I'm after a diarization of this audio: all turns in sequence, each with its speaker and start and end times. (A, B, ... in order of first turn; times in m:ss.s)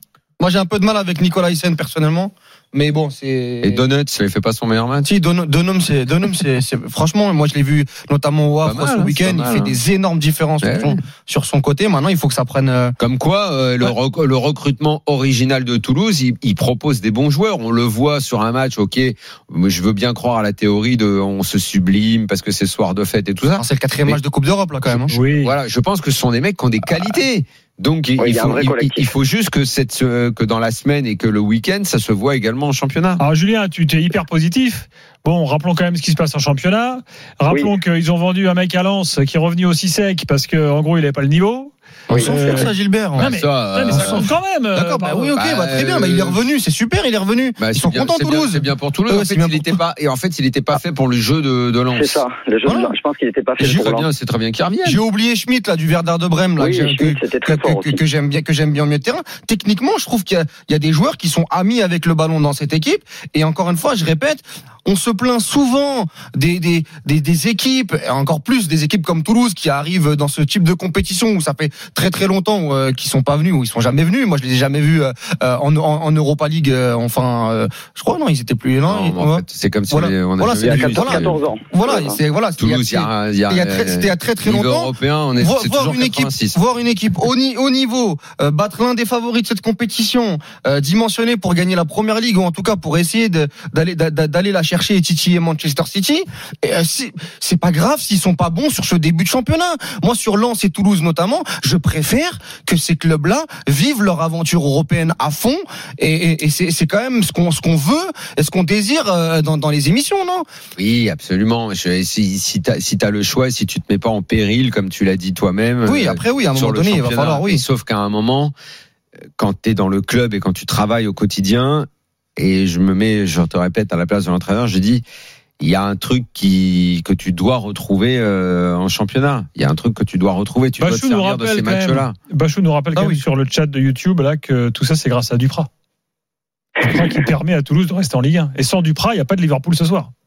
0:00.4-0:03.8 A
0:03.6-0:05.1 B
0:05.0-0:13.0 A
0:08.6-0:09.8 B
0:10.6-0:11.0 B
0:13.0-0:24.2 B
0:23.6-0:25.1 A
0:24.8-0:33.2 B
0:25.1-0:25.5 C
0:28.2-0:29.1 D
0:33.2-0:45.3 C
0:37.5-0:37.7 D
0:42.1-0:43.3 A
0:43.2-0:44.3 B
0:43.9-0:49.8 A
0:45.3-0:46.4 B
0:47.6-0:52.2 B
0:51.9-0:54.1 D
0:52.6-0:52.9 A
0:53.6-0:55.0 B
0:54.8-1:50.4 A
0:56.6-0:58.0 D
1:18.8-1:21.4 B
1:20.6-1:22.2 D
1:22.6-1:26.6 B
1:50.8-1:58.5 B
1:55.8-1:57.6 A
1:59.4-2:05.0 B
2:05.6-2:12.2 B
2:10.8-2:15.7 C
2:12.9-2:13.2 A
2:16.8-2:20.1 C